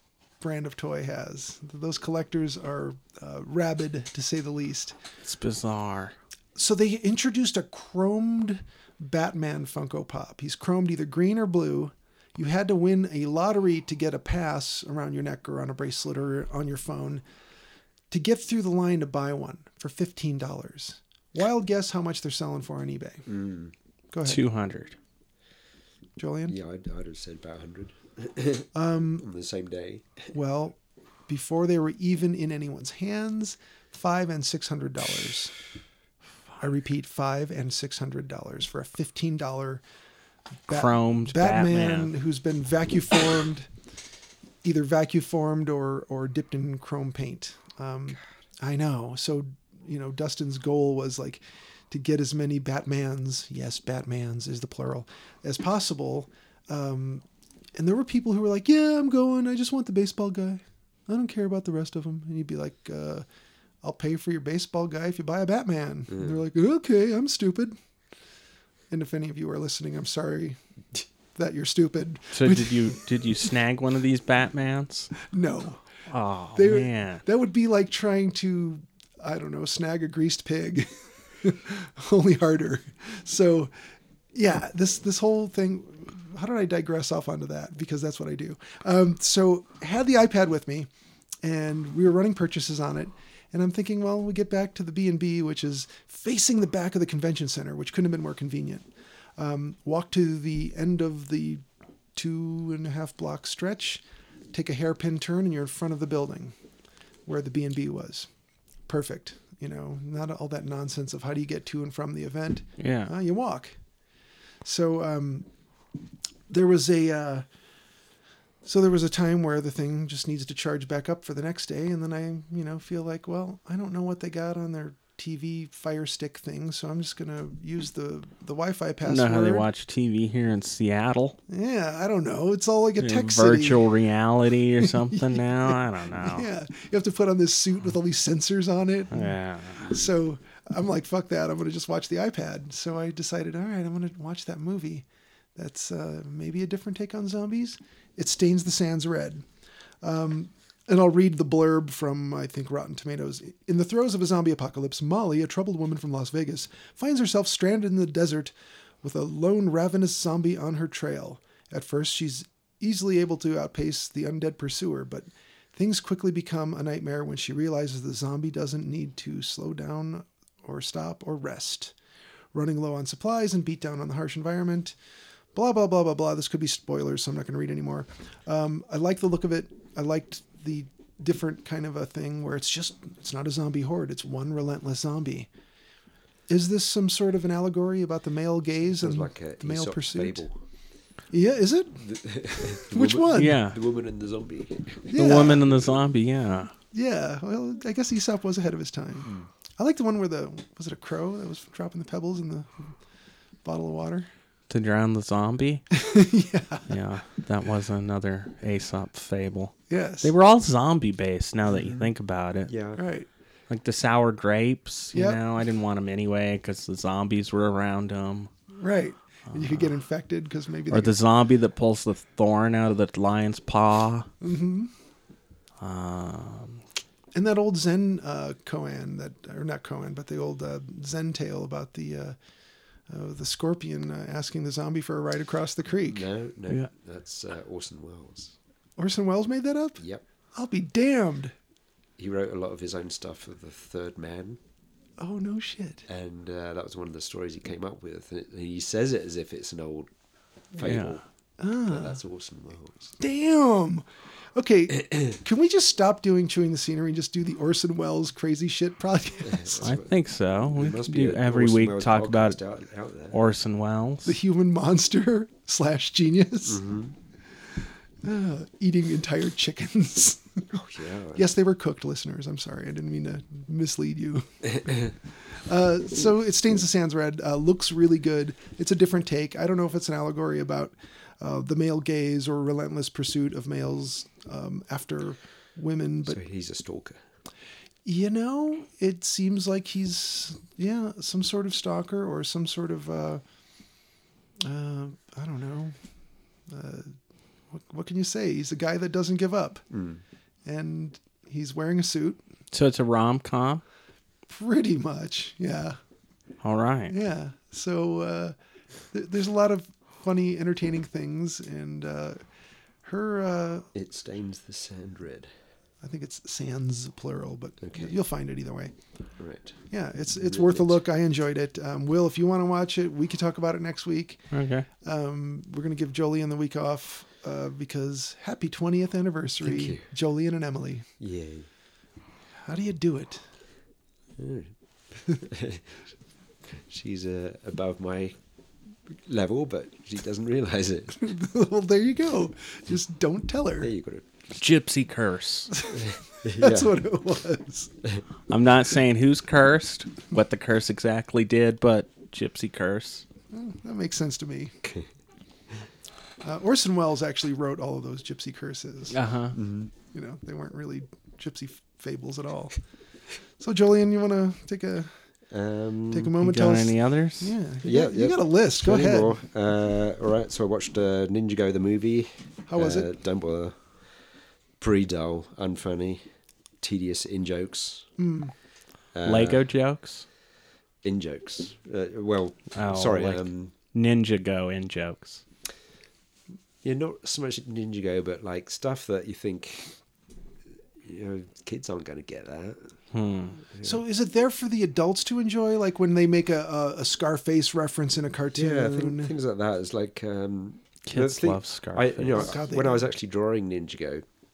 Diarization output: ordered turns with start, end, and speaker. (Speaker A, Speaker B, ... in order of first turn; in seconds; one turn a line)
Speaker A: 0.4-5.0
Speaker B: 5.2-6.2
Speaker A: 6.6-17.2
Speaker A: 18.1-23.3
Speaker C: 23.3-23.7
Speaker A: 24.1-24.4
Speaker B: 24.2-25.0
Speaker A: 26.2-26.6
Speaker C: 26.5-28.7
Speaker A: 28.7-29.3
Speaker C: 29.2-30.3
Speaker A: 30.3-35.5
Speaker A: 36.6-39.8
Speaker A: 40.7-43.7
Speaker B: 40.7-42.1
Speaker A: 44.6-57.2
Speaker A: 57.8-63.2
Speaker A: 63.8-67.8
Speaker C: 66.1-66.4
Speaker A: 68.9-70.6
Speaker A: 71.3-73.5
Speaker B: 72.3-75.1
Speaker A: 75.2-75.9
Speaker B: 76.1-77.2
Speaker A: 76.5-83.7
Speaker A: 84.3-90.9
Speaker A: 91.4-101.6
Speaker A: 102.2-106.5
Speaker A: 107.3-108.3
Speaker A: 108.9-113.8
Speaker B: 112.8-113.1
Speaker A: 114.6-115.5
Speaker A: 116.5-117.5
Speaker A: 118.7-129.7
Speaker B: 129.1-131.4
Speaker A: 131.5-133.8
Speaker B: 133.0-136.5
Speaker A: 134.8-145.1
Speaker B: 139.1-139.9
Speaker A: 145.6-149.4
Speaker A: 150.0-171.9
Speaker A: 172.5-174.9
Speaker A: 175.5-185.5
Speaker A: 186.5-190.4
Speaker C: 189.0-190.6
Speaker A: 191.3-192.1
Speaker C: 192.0-196.1
Speaker A: 192.6-193.6
Speaker B: 193.3-193.8
Speaker A: 195.1-195.7
Speaker B: 195.2-196.7
Speaker A: 196.9-202.9
Speaker A: 203.6-204.3
Speaker B: 204.7-205.9
Speaker A: 205.9-206.9
Speaker B: 206.9-212.7
Speaker A: 209.9-210.3
Speaker C: 212.7-213.0
Speaker A: 213.0-213.3
Speaker B: 213.7-218.5
Speaker A: 215.1-215.4
Speaker A: 218.8-221.2
Speaker B: 219.5-219.9
Speaker B: 220.9-224.3
Speaker A: 224.4-224.9
Speaker B: 225.8-226.8
Speaker A: 227.3-232.4
Speaker A: 233.1-236.3
Speaker C: 236.1-238.6
Speaker A: 239.0-240.0
Speaker A: 240.6-241.5
Speaker C: 242.2-244.6
Speaker A: 245.2-246.1
Speaker C: 246.1-250.1
Speaker C: 250.7-251.2
Speaker B: 250.8-251.2
Speaker A: 251.6-252.2
Speaker C: 251.9-253.2
Speaker A: 253.2-259.9
Speaker C: 259.4-263.4
Speaker B: 259.8-262.6
Speaker B: 263.3-264.4
Speaker A: 264.2-266.8
Speaker C: 266.7-267.1
Speaker A: 268.2-270.8
Speaker C: 270.7-271.4
Speaker A: 271.3-286.4
Speaker C: 274.8-275.1
Speaker C: 286.2-287.2
Speaker A: 288.1-293.4
Speaker A: 294.6-296.0
Speaker A: 296.7-297.2
Speaker A: 297.7-299.9
Speaker C: 299.9-300.2
Speaker A: 300.7-302.4
Speaker B: 302.7-303.8
Speaker A: 304.5-306.0
Speaker B: 306.6-307.1
Speaker A: 307.1-308.6
Speaker A: 309.1-312.4
Speaker A: 313.0-313.9
Speaker C: 313.9-315.5
Speaker A: 316.0-318.9
Speaker C: 317.8-318.1
Speaker C: 319.4-319.8
Speaker A: 319.9-324.4
Speaker C: 320.3-321.0
Speaker B: 324.5-324.9
Speaker A: 325.0-331.1
Speaker C: 329.6-330.1
Speaker C: 331.2-331.7
Speaker A: 332.6-333.4
Speaker C: 334.4-336.0
Speaker C: 336.7-338.4
Speaker C: 339.1-341.2
Speaker A: 341.1-343.9
Speaker C: 343.8-344.3
Speaker B: 344.5-345.7
Speaker A: 345.7-347.9
Speaker C: 345.9-346.9
Speaker B: 348.5-353.2
Speaker A: 353.5-354.8
Speaker C: 354.8-355.1
Speaker A: 356.4-359.2
Speaker B: 359.1-359.6
Speaker C: 359.5-359.9
Speaker A: 360.1-362.8
Speaker A: 363.6-365.1
Speaker C: 365.5-366.4
Speaker A: 366.1-369.4
Speaker B: 366.4-367.6
Speaker C: 367.8-373.8
Speaker A: 372.7-373.1
Speaker C: 374.8-376.2
Speaker C: 376.8-378.1
Speaker A: 378.2-378.5
Speaker C: 379.1-379.6
Speaker B: 379.2-380.3
Speaker C: 381.0-383.7
Speaker B: 382.7-385.4
Speaker C: 386.8-390.0
Speaker C: 391.0-392.9
Speaker B: 393.1-393.6
Speaker C: 393.7-394.0
Speaker A: 393.8-399.3
Speaker C: 398.6-404.2
Speaker B: 401.1-402.5
Speaker A: 402.3-403.1